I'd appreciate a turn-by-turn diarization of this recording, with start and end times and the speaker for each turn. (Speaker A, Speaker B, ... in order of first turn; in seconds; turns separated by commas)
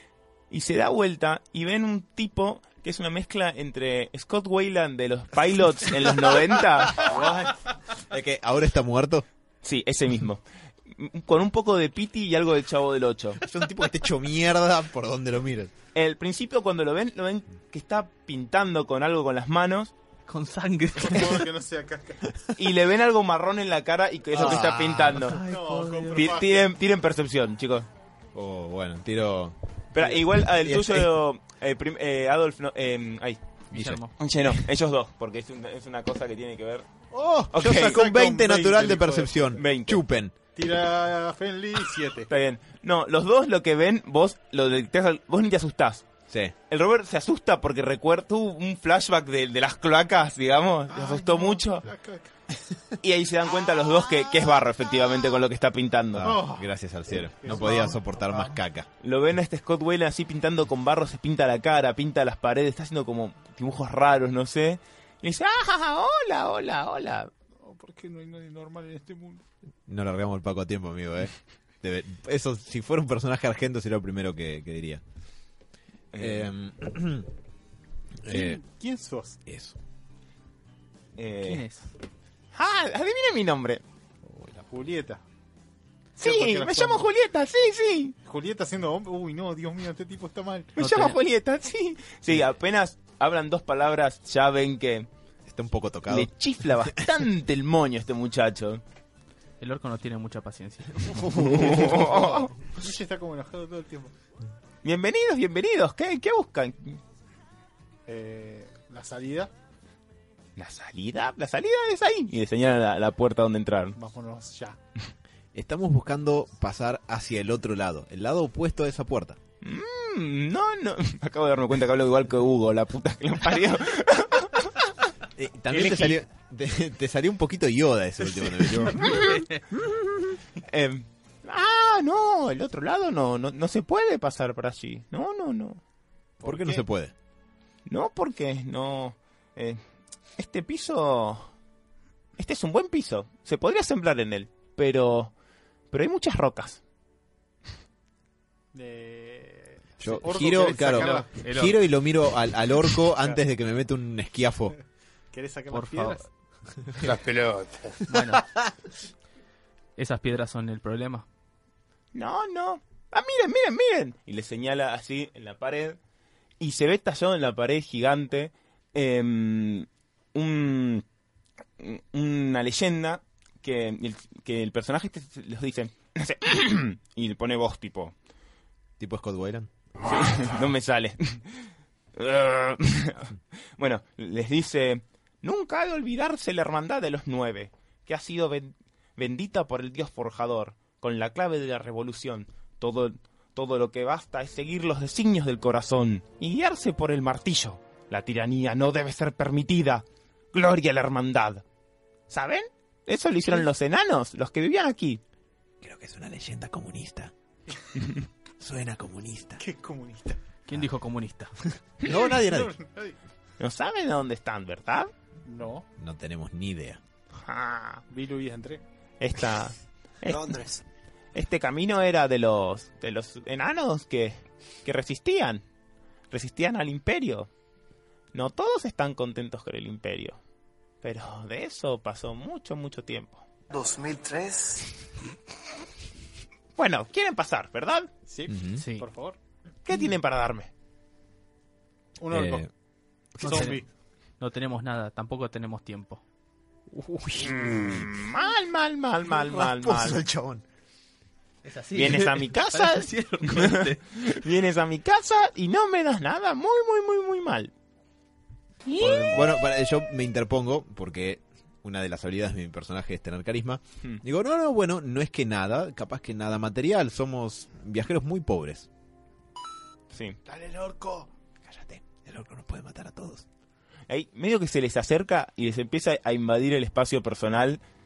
Speaker A: 0.5-7.1, Speaker B: 6.9-9.2, Speaker A: 9.6-13.4, Speaker B: 13.4-15.7, Speaker A: 15.9-19.9, Speaker C: 20.3-21.4, Speaker D: 20.9-22.3, Speaker A: 22.6-25.4, Speaker B: 24.3-25.3, Speaker C: 25.1-26.4, Speaker D: 25.4-26.7, Speaker A: 26.1-27.9, Speaker B: 28.3-31.1, Speaker A: 29.9-33.4, Speaker C: 33.7-34.1, Speaker B: 33.7-34.6, Speaker A: 34.2-36.8, Speaker B: 37.1-40.3, Speaker A: 37.5-38.0, Speaker D: 37.6-39.6, Speaker A: 39.5-40.0, Speaker D: 40.5-42.3, Speaker A: 42.3-46.0, Speaker B: 46.3-46.5, Speaker A: 46.7-51.9, Speaker D: 50.9-52.3, Speaker A: 53.0-56.3, Speaker B: 56.1-58.9, Speaker D: 56.2-56.7, Speaker D: 57.4-58.5, Speaker A: 59.0-67.3, Speaker D: 67.6-69.4, Speaker B: 69.9-75.0, Speaker A: 76.1-76.5, Speaker B: 76.2-77.3, Speaker B: 78.2-78.6, Speaker D: 78.3-79.4, Speaker B: 79.5-79.8, Speaker A: 81.2-81.6, Speaker C: 81.4-81.9, Speaker A: 82.5-83.8, Speaker D: 84.5-85.2, Speaker D: 86.2-87.1, Speaker A: 86.2-88.1, Speaker D: 88.2-90.7, Speaker C: 90.8-91.2, Speaker A: 90.8-95.1, Speaker B: 95.5-97.1, Speaker A: 96.1-98.8, Speaker C: 99.6-101.4, Speaker A: 101.3-102.5, Speaker B: 101.5-101.9, Speaker D: 101.9-104.1, Speaker A: 104.8-107.0, Speaker D: 108.1-109.5, Speaker A: 110.6-114.0, Speaker D: 114.0-114.8, Speaker B: 115.5-119.4, Speaker A: 119.6-124.9, Speaker B: 125.3-129.3, Speaker A: 125.7-126.2, Speaker A: 129.0-129.4, Speaker A: 130.7-135.8, Speaker D: 136.4-136.8, Speaker B: 136.4-137.1, Speaker A: 137.9-139.8, Speaker A: 140.4-141.5, Speaker A: 142.4-145.3, Speaker A: 145.9-146.8, Speaker D: 148.7-151.3, Speaker B: 150.0-154.8, Speaker C: 150.8-151.8, Speaker D: 155.3-156.2, Speaker C: 155.7-156.2, Speaker E: 157.0-158.1, Speaker C: 158.1-158.4, Speaker C: 160.0-161.2, Speaker A: 162.1-166.0, Speaker A: 166.6-171.0, Speaker A: 171.8-178.1, Speaker B: 179.0-179.7, Speaker A: 180.1-201.6, Speaker A: 202.3-205.2, Speaker B: 205.8-207.3, Speaker B: 208.6-209.6, Speaker D: 209.6-210.4, Speaker C: 210.7-211.5, Speaker B: 212.0-212.7, Speaker D: 212.1-213.2, Speaker A: 213.6-215.1, Speaker D: 215.4-215.8, Speaker B: 216.0-217.0, Speaker A: 217.3-218.0, Speaker D: 218.1-218.8, Speaker A: 219.2-220.6, Speaker E: 220.3-220.8, Speaker A: 221.3-225.6, Speaker A: 226.3-227.5, Speaker A: 228.3-230.4, Speaker A: 231.0-233.4, Speaker E: 233.7-234.9, Speaker A: 236.8-238.1, Speaker D: 238.3-239.4, Speaker B: 238.5-238.8, Speaker C: 238.8-239.1, Speaker A: 239.8-240.7, Speaker D: 242.2-242.7, Speaker B: 242.3-242.7, Speaker D: 243.3-243.8, Speaker C: 243.4-243.8, Speaker C: 244.4-246.2, Speaker B: 246.9-248.0, Speaker A: 247.6-250.2, Speaker B: 249.2-250.6, Speaker C: 251.6-254.0, Speaker A: 251.9-257.7, Speaker B: 258.9-268.9, Speaker A: 270.1-270.4, Speaker B: 270.5-271.1, Speaker B: 271.6-273.4, Speaker A: 274.1-277.8